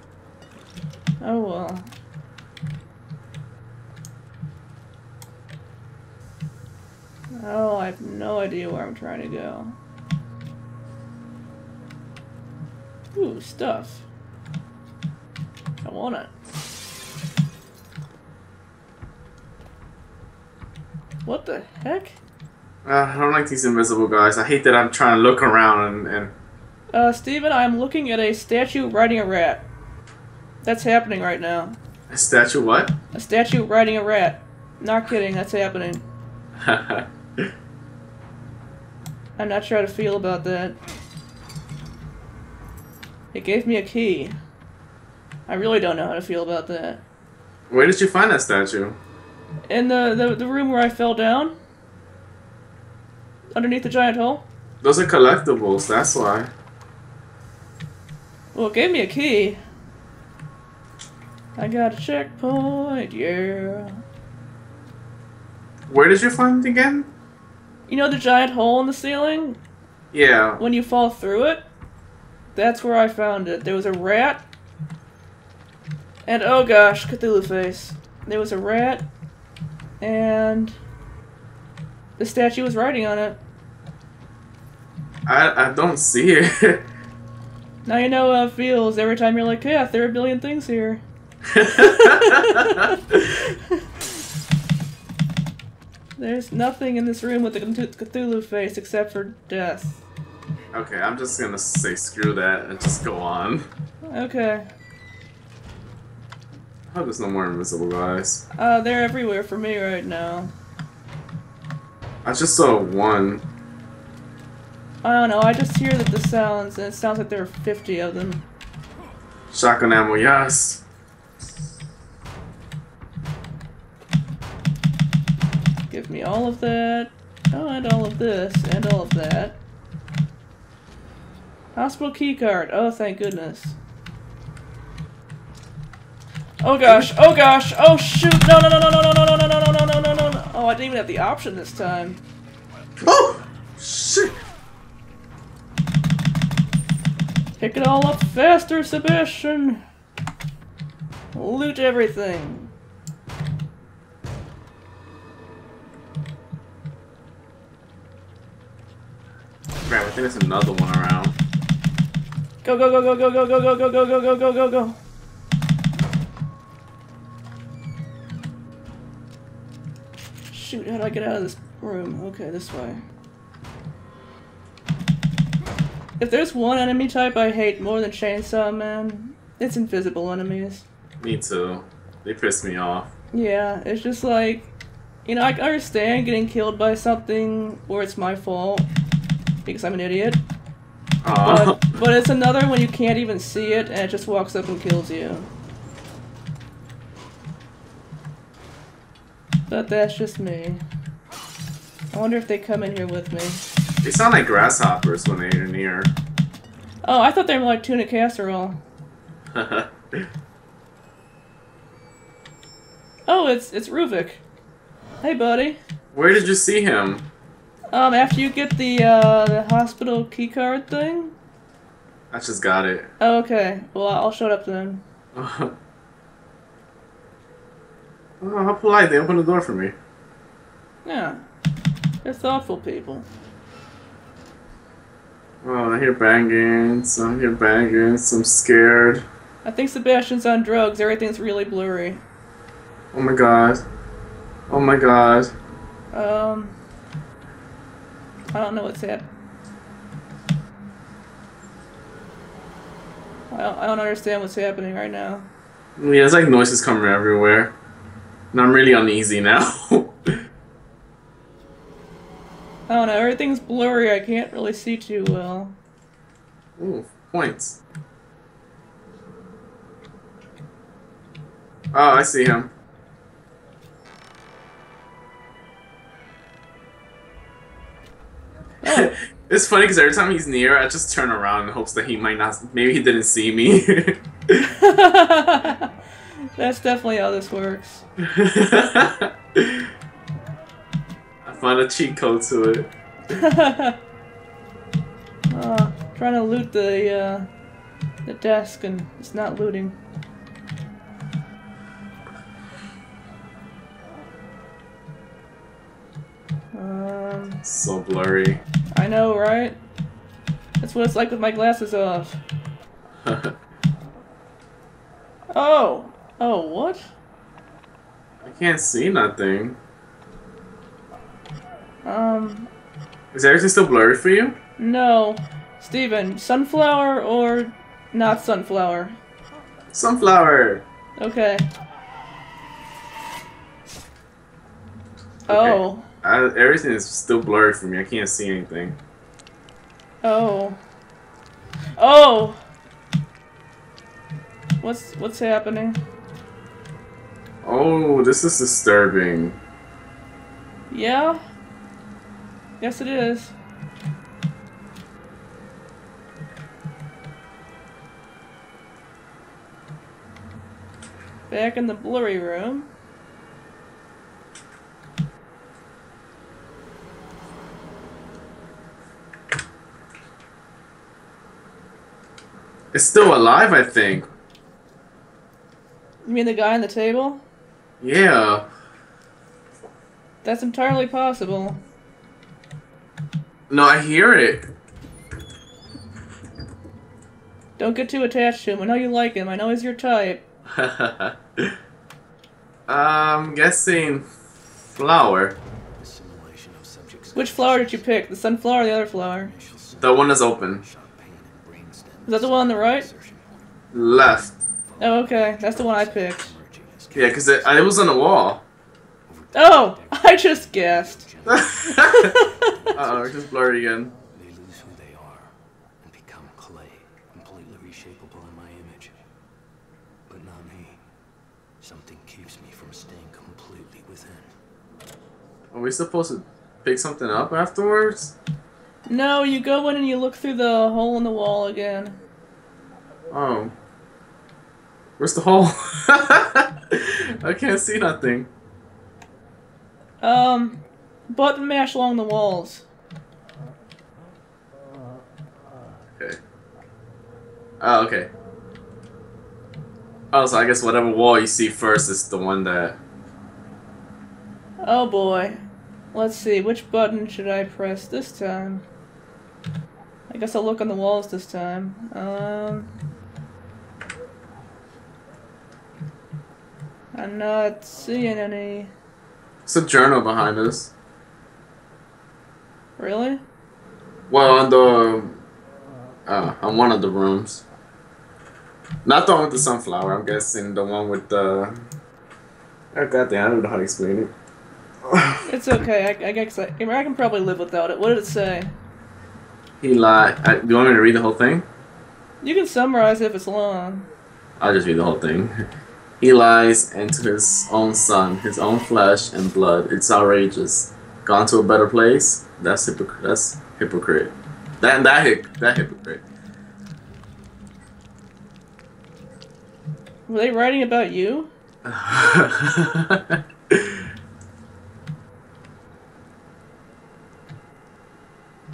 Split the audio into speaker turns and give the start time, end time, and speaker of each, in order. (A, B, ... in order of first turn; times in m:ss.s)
0:01.2-0:01.9 A
0:07.4-0:09.8 A
0:13.2-0:14.0 A
0:15.8-0:16.3 A
0:21.2-0:22.2 A
0:22.8-0:26.3 B
0:26.9-0:29.6 A
0:30.6-0:31.8 A
0:32.1-0:33.0 B
0:33.1-0:36.0 A
0:36.6-0:37.5 B
0:39.4-0:40.8 A
0:43.3-0:44.4 A
0:45.5-0:47.0 A
0:47.7-0:49.0 B
0:49.7-0:51.6 A
0:53.5-0:54.4 A
0:54.8-0:56.5 B
0:58.5-0:59.6 A
1:01.6-1:04.0 A
1:05.9-1:07.1 B
1:07.9-1:09.6 A
1:10.1-1:10.6 B
1:10.6-1:11.6 A
1:12.6-1:14.4 A
1:16.3-1:19.1 A
1:20.0-1:20.8 A
1:22.2-1:23.4 A
1:25.3-1:26.9 B
1:27.8-1:31.0 A
1:31.5-1:33.2 B
1:31.8-1:33.8 A
1:36.2-1:40.0 A
1:40.7-1:43.7 B
1:44.0-1:44.7 A
1:46.9-1:48.4 B
1:48.6-1:50.5 A
1:52.2-1:53.4 B
1:55.0-1:58.4 A
1:59.5-2:00.8 B
2:05.9-2:09.6 A
2:11.8-2:13.8 A
2:16.6-2:22.2 A
2:16.8-2:17.1 B
2:23.0-2:24.4 B
2:27.6-2:29.8 A
2:31.3-2:32.7 A
2:39.8-2:41.4 B
2:42.6-2:45.0 A
2:50.5-2:53.0 A
2:56.2-3:00.8 A
3:01.2-3:03.1 B
3:03.3-3:04.7 A
3:05.3-3:08.9 A
3:09.7-3:10.4 A
3:11.2-3:11.9 B
3:11.4-3:15.5 A
3:19.7-3:20.8 A
3:22.1-3:23.6 A
3:24.0-3:26.1 B
3:27.0-3:28.8 A
3:29.6-3:30.3 B
3:33.3-3:34.4 A
3:35.2-3:35.8 A
3:36.1-3:37.3 B
3:37.9-3:41.4 A
3:42.3-3:43.1 B
3:43.2-3:45.0 A
3:45.3-3:45.8 B
3:48.4-3:50.0 B
3:51.0-3:51.5 A
3:52.2-3:53.3 A
3:55.6-3:59.2 B
3:59.6-4:02.2 A
4:03.1-4:03.8 B
4:04.7-4:05.5 B
4:06.1-4:06.8 A
4:08.5-4:09.3 A
4:13.5-4:15.5 A
4:16.0-4:17.7 B
4:18.5-4:20.4 B
4:22.9-4:25.8 A
4:26.8-4:27.8 B
4:31.9-4:32.7 B
4:38.8-4:39.1 A
4:38.8-4:44.7 B
4:44.7-4:45.9 A
4:46.6-4:48.0 A
4:48.2-4:49.9 B
4:51.4-4:52.9 B
4:53.3-4:54.0 A
4:55.5-4:57.5 A
4:58.2-5:00.0 A
5:06.7-5:07.6 A
5:07.6-5:08.6 B
5:08.9-5:09.8 A
5:10.8-5:12.4 A
5:13.2-5:13.6 B
5:15.5-5:17.0 A
5:18.4-5:19.8 B
5:22.0-5:22.7 A
5:23.3-5:24.6 B
5:24.8-5:29.2 A
5:29.9-5:30.8 B
5:31.2-5:31.7 A
5:35.5-5:36.1 A
5:35.5-5:39.0 B
5:40.2-5:40.8 A
5:42.0-5:42.6 A
5:44.8-5:46.0 A
5:47.6-5:49.6 B
5:50.9-5:51.4 A
5:52.8-5:53.5 A
6:01.5-6:02.9 A
6:12.9-6:14.3 B
6:16.2-6:17.4 A
6:18.0-6:18.6 B
6:20.4-6:21.8 A
6:23.7-6:24.7 B
6:27.8-6:30.4 A
6:30.7-6:31.8 B
6:32.9-6:34.3 B
6:34.9-6:35.6 B
6:36.0-6:38.1 C
6:37.4-6:39.5 A
6:39.4-6:43.6 C
6:40.0-6:40.8 B
6:42.3-6:43.1 A
6:43.9-6:44.6 B
6:44.9-6:48.2 C
6:45.0-6:46.5 A
6:47.1-6:48.6 B
6:49.3-6:53.4 C
6:49.5-6:51.2 A
6:51.5-6:52.4 B
6:51.9-6:52.7 A
6:53.0-6:54.1 B
6:54.2-6:59.2 C
7:00.3-7:01.0 C
7:01.8-7:04.5 C
7:05.7-7:08.3 B
7:09.1-7:12.2 A
7:13.3-7:13.7 B
7:15.2-7:18.5 B
7:20.2-7:22.8 A
7:27.8-7:28.3 B
7:30.3-7:33.0 B
7:34.8-7:35.6 A
7:36.1-7:38.8 A
7:40.3-7:42.9 A
7:47.1-7:48.9 A
7:49.7-7:50.9 B
7:53.0-7:53.4 A
7:54.3-7:55.4 B
7:56.3-7:57.6 B
7:59.0-8:01.8 B
8:02.9-8:04.3 B
8:05.0-8:05.4 B
8:05.5-8:08.7 A
8:09.8-8:11.7 B
8:12.4-8:14.1 A
8:14.6-8:15.6 B
8:16.2-8:26.2 B
8:30.3-8:31.5 A
8:31.8-8:34.1 B